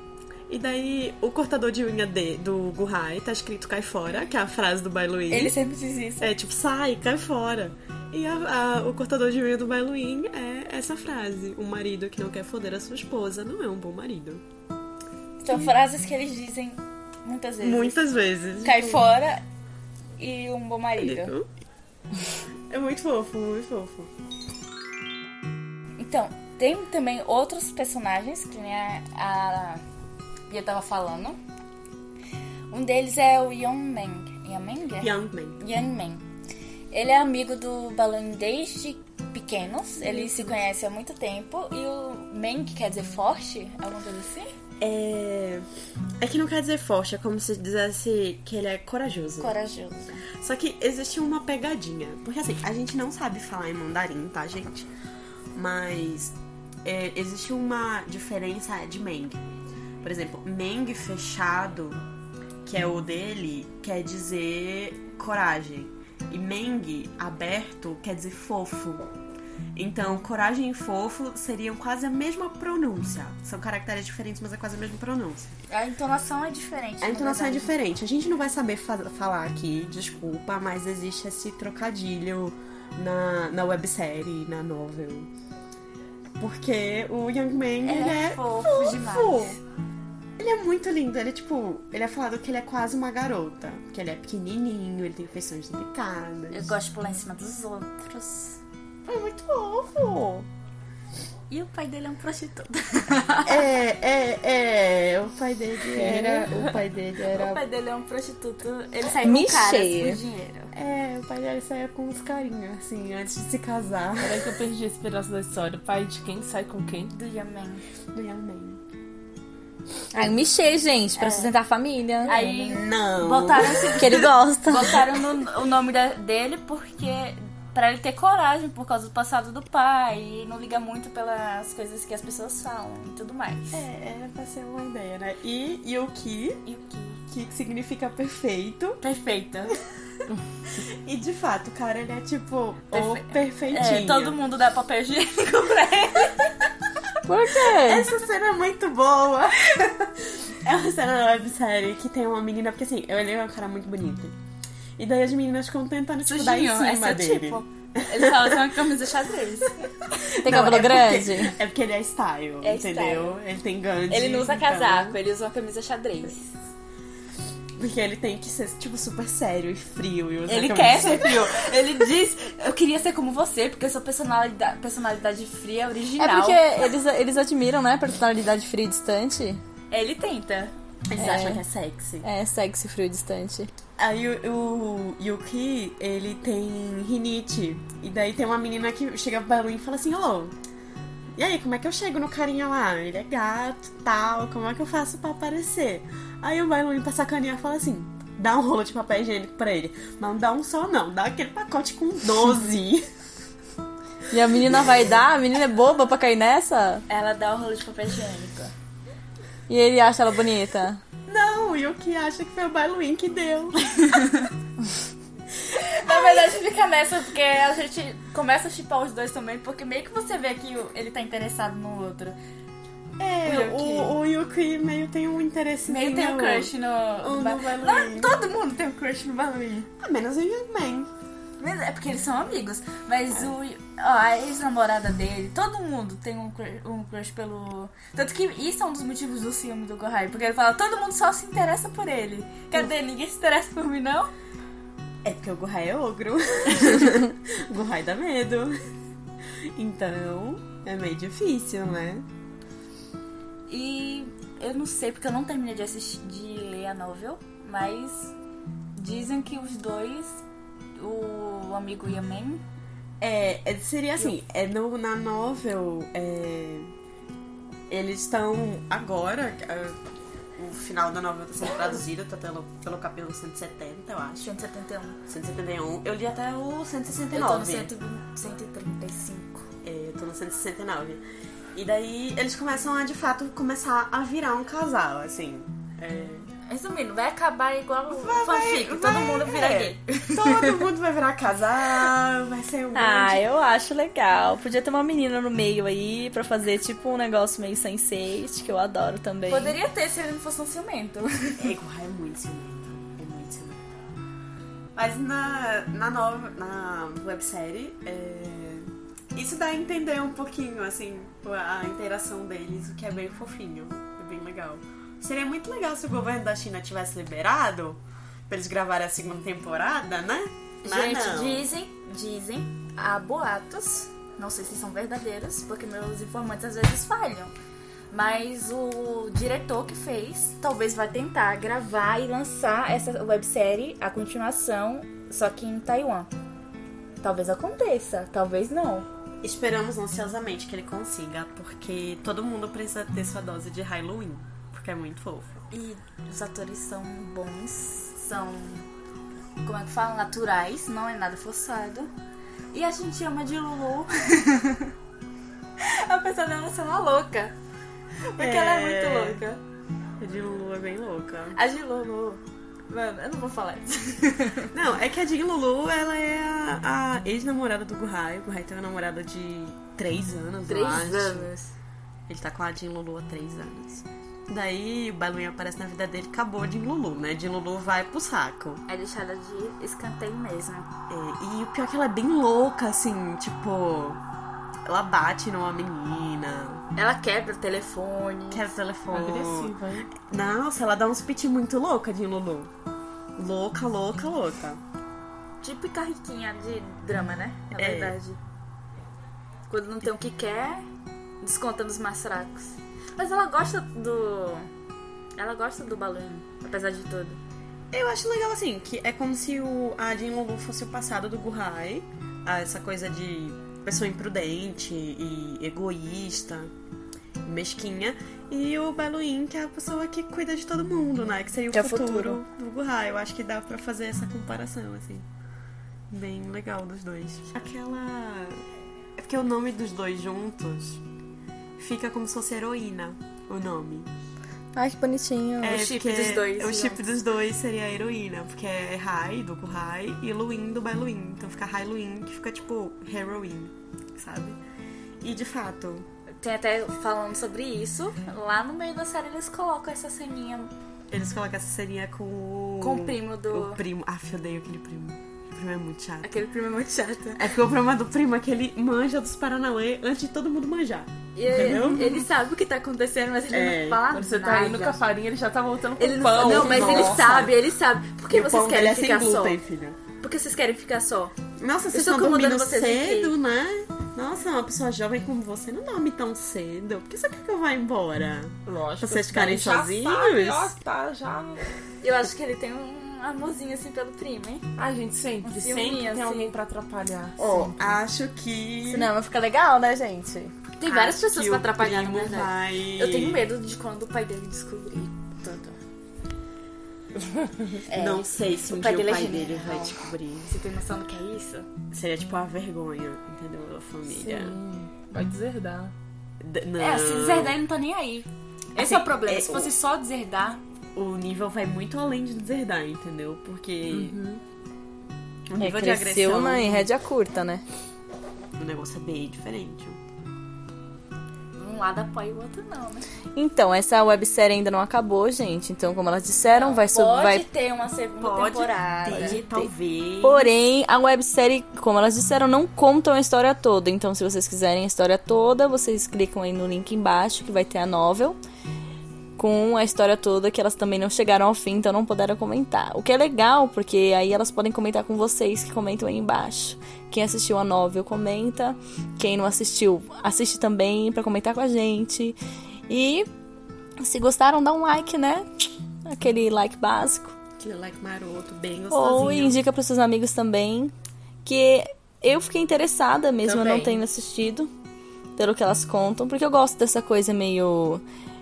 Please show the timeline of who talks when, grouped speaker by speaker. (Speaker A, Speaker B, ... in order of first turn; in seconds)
Speaker A: 0.5-5.5, 6.2-14.4, 17.6-19.1, 21.0-21.5, 22.7-24.1, 35.0-35.6, 40.0-40.5, 44.8-45.6, 46.2-49.5, 50.4-54.9, 55.5-59.4, 60.0-62.0, 62.6-69.1, 69.7-75.5, 77.0-85.3, 86.4-89.6, 90.4-96.7, 99.1-100.5, 103.4-107.6, 110.7-114.5, 118.1-118.8, 122.6-124.3, 133.7-136.6, 137.3-139.0, 140.7-144.4, 147.8-154.3, 155.0-158.6, 160.2-165.2, 167.8-171.7, 181.1-182.2, 184.0-190.5, 191.3-203.1, 211.3-214.2, 216.1-216.4, 223.2-228.4, 230.0-231.1, 245.2-248.7, 249.8-252.3, 263.2-266.9, 267.9-270.0, 270.5-274.5, 275.3-277.9, 279.8-281.2, 281.7-286.5, 288.1-293.4, 301.6-303.9, 304.9-321.7, 339.4-345.6, 358.4-359.4, 360.2-361.6, 364.7-371.5, 372.3-378.8, 381.1-384.2, 384.9-386.8, 388.5-392.7, 393.4-394.8, 397.7-398.2, 407.9-416.7, 417.4-425.2, 426.1-428.6, 429.2-431.0, 431.8-434.1, 435.6-444.6, 445.2-446.1, 451.1-456.3, 457.4-462.3, 463.5-464.0, 466.4-467.5, 468.3-470.0, 471.6-480.7, 487.4-489.1, 490.8-493.4, 497.9-500.5, 501.9-504.6, 506.4-507.6, 508.8-509.7, 510.9-514.2, 515.5-516.9, 518.6-520.0, 528.2-530.5, 557.6-559.6
Speaker B: 5.3-6.3, 15.4-18.0, 18.6-19.4, 20.2-21.3, 26.0-29.8, 30.5-31.4, 32.7-36.2, 36.9-44.5, 49.4-50.2, 75.7-77.7, 87.8-89.6, 96.5-98.6, 101.5-103.7, 106.0-106.4, 107.2-110.7, 117.1-117.8, 121.2-121.5, 122.2-133.8, 136.7-137.2, 139.0-139.8, 142.9-146.6, 156.2-159.9, 162.6-163.4, 164.1-166.5, 170.5-176.7, 179.9-180.7, 207.1-208.7, 214.1-214.5, 215.7-222.3, 223.4-224.2, 225.9-229.9, 231.6-244.3, 253.7-258.3, 258.9-260.4, 261.0-262.6, 274.4-275.2, 277.3-279.7, 286.7-290.8, 299.5-301.7, 320.8-327.5, 328.1-336.3, 337.2-339.1, 345.7-348.9, 349.6-352.1, 352.7-354.9, 355.8-357.5, 358.3-359.6, 361.5-364.7, 370.6-371.7, 378.9-380.9, 386.9-388.7, 395.6-398.4, 399.7-400.8, 401.4-404.7, 405.4-407.4, 435.6-437.0, 446.4-450.7, 452.8-453.8, 456.2-457.4, 461.3-465.0, 466.0-469.6, 470.2-471.3, 471.9-473.3, 482.0-484.7, 485.4-486.6, 490.8-495.8, 497.9-501.7, 506.8-510.6, 521.6-523.0, 526.4-529.4, 563.5-564.0
Speaker C: 109.2-110.2, 120.1-122.7, 124.0-125.1, 147.2-148.1, 160.4-161.5, 176.2-179.6, 181.2-181.6, 182.2-183.7, 204.3-207.0, 209.7-211.0, 292.9-299.7, 421.7-422.4, 434.7-435.8, 488.9-490.5, 515.6-517.6, 523.3-527.4, 529.1-529.7, 530.2-538.4, 539.4-552.4, 552.9-553.3, 554.0-555.5, 556.0-557.3, 558.9-560.9, 561.4-564.7, 565.4-568.0
Speaker D: 114.2-117.1, 389.1-390.1, 464.1-467.5, 478.6-481.7, 484.8-488.0, 504.1-505.9, 513.9-514.4